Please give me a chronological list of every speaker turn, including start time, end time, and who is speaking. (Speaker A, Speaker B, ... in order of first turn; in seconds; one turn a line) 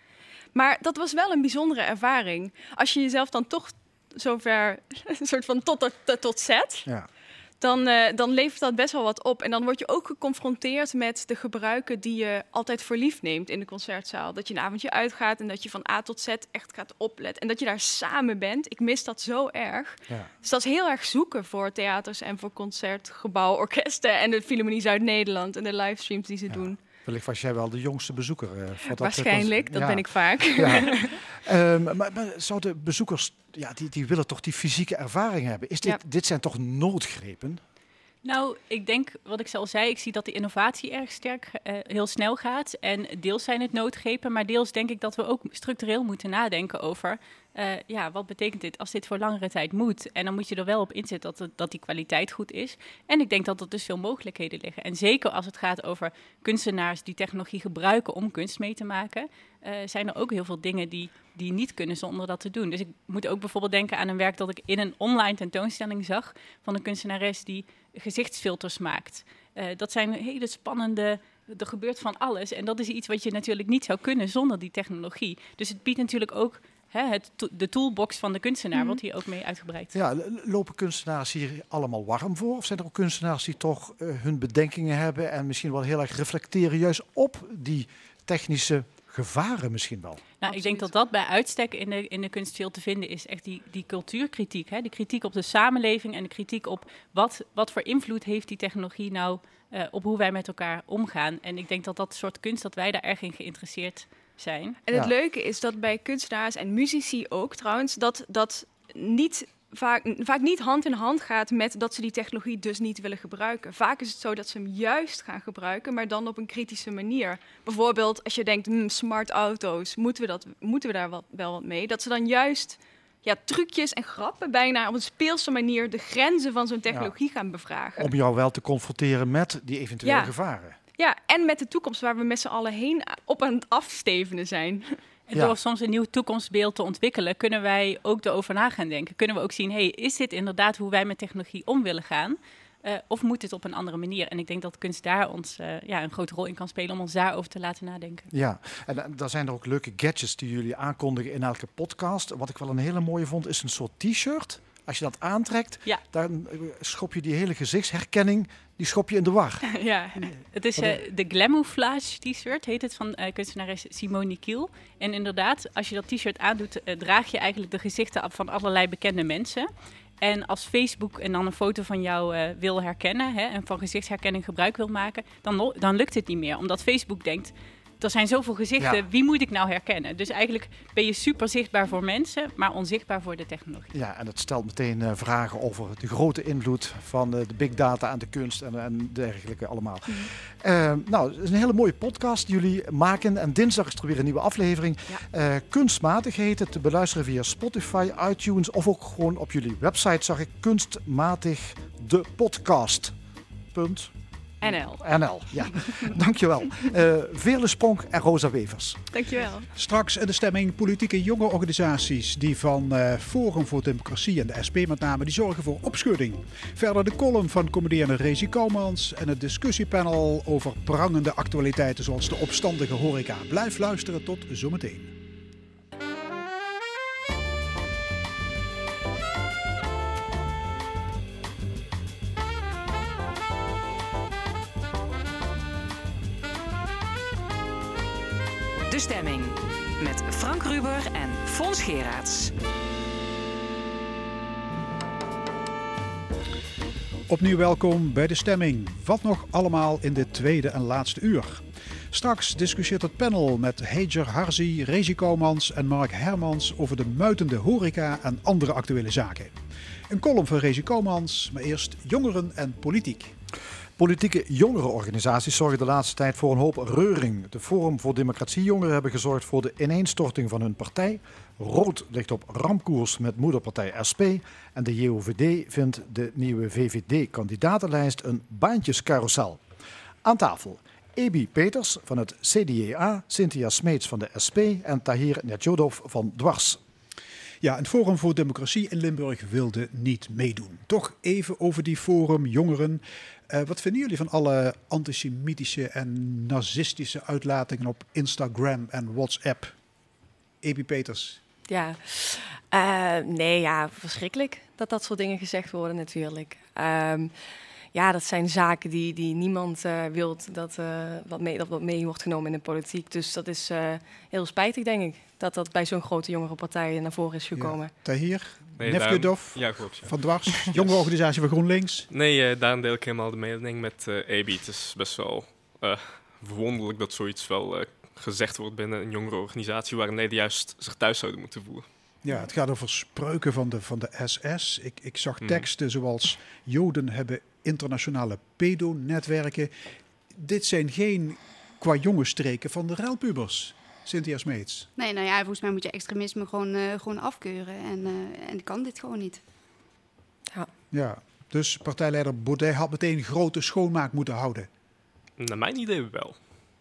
Speaker A: 0.5-6.9
Speaker A: 7.6-26.8
Speaker B: 26.5-37.6
Speaker A: 28.9-31.1
Speaker C: 38.2-79.9
Speaker B: 79.9-90.2
Speaker C: 90.4-104.8
Speaker A: 90.5-90.9
Speaker A: 104.8-128.1
Speaker B: 128.0-130.8
Speaker A: 130.0-130.3
Speaker A: 131.0-134.9
Speaker C: 135.3-148.3
Speaker B: 148.3-161.0
Speaker A: 159.7-160.2
Speaker C: 160.5-169.7
Speaker C: 170.2-183.9
Speaker B: 183.9-203.1
Speaker B: 203.7-209.0
Speaker A: 204.6-205.0
Speaker A: 209.1-209.7
Speaker D: 209.7-225.1
Speaker E: 238.9-242.5
Speaker D: 247.3-259.6
Speaker D: 260.1-263.3
Speaker B: 264.0-279.6
Speaker B: 280.2-286.8
Speaker D: 287.6-299.7
Speaker D: 300.6-301.4
Speaker F: 301.7-307.3
Speaker F: 307.9-318.0
Speaker D: 317.5-322.1
Speaker G: 318.8-321.1
Speaker G: 322.1-331.9
Speaker D: 332.2-339.7
Speaker G: 335.4-335.7
Speaker D: 340.3-344.9
Speaker H: 345.0-349.4
Speaker D: 350.9-354.7
Speaker G: 355.4-356.4